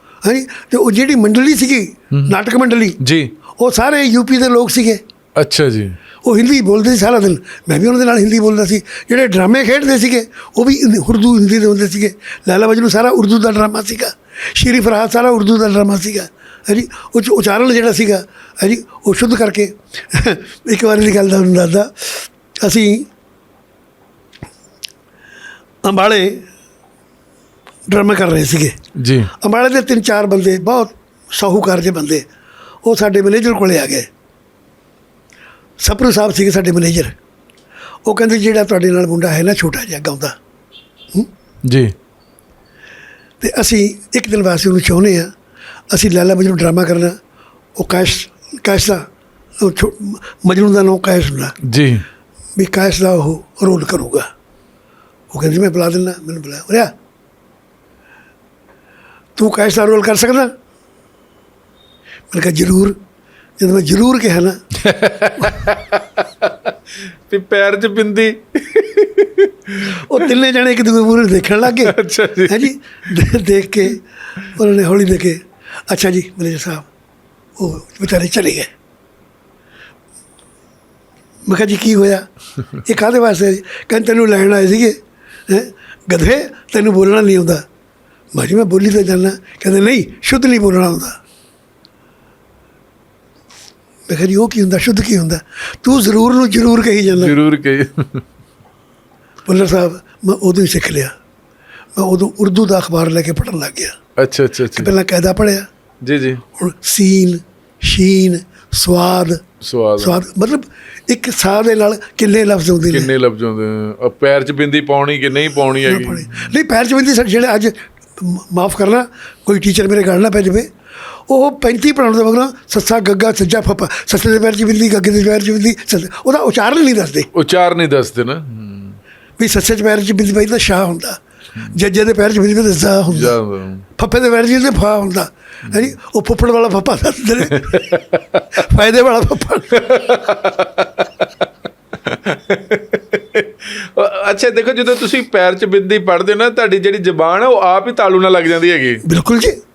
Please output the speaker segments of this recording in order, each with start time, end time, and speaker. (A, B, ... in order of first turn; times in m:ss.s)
0:00.2-0:03.0 A
0:02.1-0:02.4 B
0:03.0-0:03.3 B
0:03.6-0:05.0 A
0:05.4-0:06.0 B
0:06.2-0:23.1 A
0:25.8-0:26.4 A
0:27.9-0:28.8 A
0:29.0-0:29.3 B
0:29.3-0:32.2 A
0:32.8-0:34.1 A
0:35.8-0:37.2 A
0:38.1-0:40.4 A
0:41.6-0:41.9 B
0:43.4-0:45.3 A
0:45.9-0:47.2 A
0:47.8-0:49.1 A
0:49.6-0:51.6 A
0:51.6-0:52.0 B
0:52.6-0:54.3 A
0:55.3-0:56.9 A
0:59.4-1:00.5 A
1:02.3-1:03.0 A
1:03.6-1:04.6 A
1:04.8-1:06.7 B
1:07.3-1:10.3 B
1:09.9-1:12.0 A
1:11.6-1:12.7 B
1:12.5-1:16.9 A
1:17.6-1:18.7 A
1:21.5-1:25.0 A
1:25.5-1:27.6 A
1:28.3-1:31.2 A
1:34.1-1:37.4 A
1:37.1-1:38.2 B
1:39.5-1:41.1 A
1:42.0-1:44.0 A
1:44.2-1:44.9 B
1:44.7-1:45.7 A
1:46.0-1:46.4 B
1:46.6-1:49.4 A
1:49.6-1:50.2 B
1:50.0-1:53.1 A
1:52.9-1:56.5 B
1:55.8-2:00.7 A
2:01.3-2:07.3 A
2:07.3-2:09.0 B
2:09.4-2:13.4 A
2:13.1-2:13.8 B
2:14.0-2:17.9 A
2:17.5-2:18.4 B
2:18.5-2:20.2 A
2:19.8-2:21.3 B
2:22.0-2:29.0 B
2:29.0-2:29.6 A